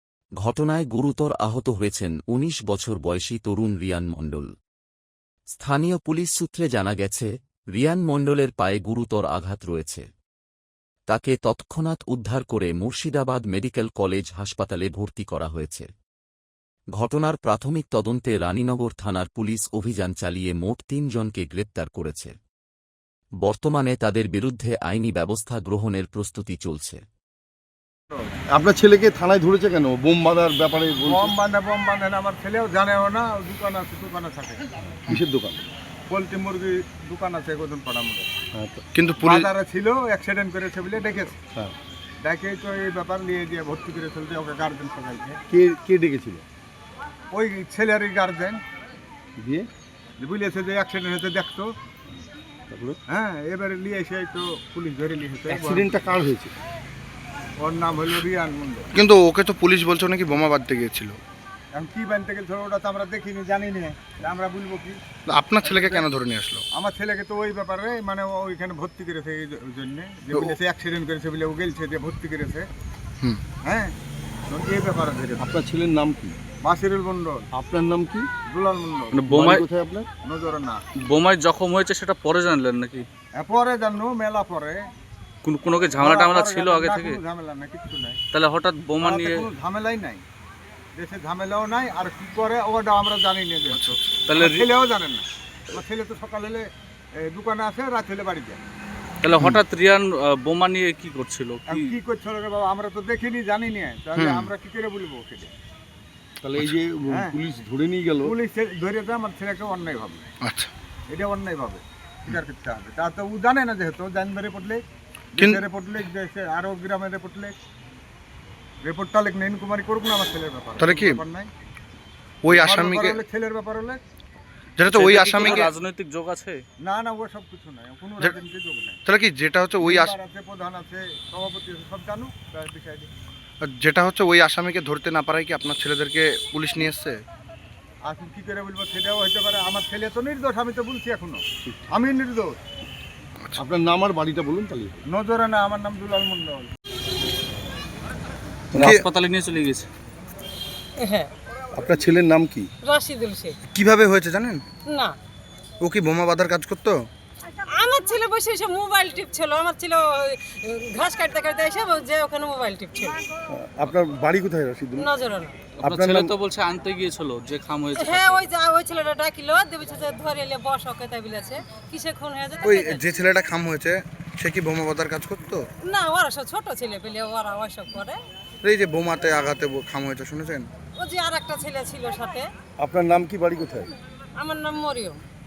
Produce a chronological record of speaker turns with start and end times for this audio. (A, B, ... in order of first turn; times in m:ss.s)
0:00.4-0:04.5 A
0:05.5-0:10.1 A
0:11.1-0:15.9 A
0:17.0-0:22.4 A
0:23.4-0:27.0 A
0:28.5-0:31.4 B
0:31.1-0:35.0 C
0:35.0-0:35.6 B
0:36.1-0:38.3 C
0:38.5-0:38.8 B
0:38.9-0:39.5 D
0:39.2-0:41.4 C
0:42.2-0:45.4 C
0:45.5-0:46.4 B
0:47.3-0:48.6 C
0:49.4-0:49.7 B
0:50.2-0:51.7 C
0:52.7-0:53.0 B
0:53.1-0:56.0 C
0:55.5-0:56.5 B
0:57.6-0:58.9 C
0:58.9-1:01.2 D
1:01.7-1:05.0 C
1:05.3-1:06.6 D
1:05.6-1:06.1 C
1:06.7-1:12.7 C
1:13.6-1:13.9 C
1:14.5-1:15.5 C
1:15.4-1:16.4 B
1:16.6-1:17.5 C
1:17.5-1:18.3 B
1:18.5-1:19.2 C
1:19.1-1:19.6 E
1:19.2-1:20.1 B
1:20.2-1:20.8 C
1:21.0-1:23.1 E
1:23.3-1:24.8 C
1:25.4-1:27.2 E
1:26.0-1:28.2 C
1:28.3-1:29.5 E
1:29.0-1:30.2 C
1:31.0-1:38.6 C
1:33.7-1:34.2 D
1:34.3-1:34.7 E
1:39.2-1:42.0 E
1:39.3-1:39.6 D
1:41.7-1:45.5 C
1:44.2-1:44.5 D
1:46.4-1:48.3 B
1:47.1-1:47.4 C
1:48.2-1:50.3 C
1:50.4-1:50.7 D
1:51.1-1:54.8 C
1:55.4-1:55.6 D
1:55.4-1:57.6 C
1:58.8-2:01.5 C
2:00.8-2:01.2 D
2:02.4-2:03.2 D
2:02.5-2:04.0 C
2:04.8-2:05.7 D
2:04.9-2:06.6 E
2:06.8-2:09.0 C
2:09.0-2:10.2 D
2:09.8-2:13.1 C
2:13.6-2:17.2 D
2:18.1-2:22.6 C
2:23.6-2:25.0 B
2:25.1-2:26.7 C
2:28.7-2:29.9 E
2:28.8-2:29.0 D
2:31.0-2:31.3 F
2:31.8-2:32.7 B
2:32.8-2:33.6 F
2:33.7-2:34.6 D
2:34.9-2:35.2 F
2:35.8-2:37.0 D
2:37.7-2:43.2 F
2:43.5-2:45.1 B
2:45.0-2:45.6 F
2:45.8-2:46.3 B
2:45.8-2:48.5 E
2:48.0-2:53.0 F
2:52.6-2:55.7 D
2:55.8-2:58.2 F
2:58.6-3:00.7 D
3:01.0-3:02.5 F
3:02.8-3:03.9 B
3:04.4-3:05.2 F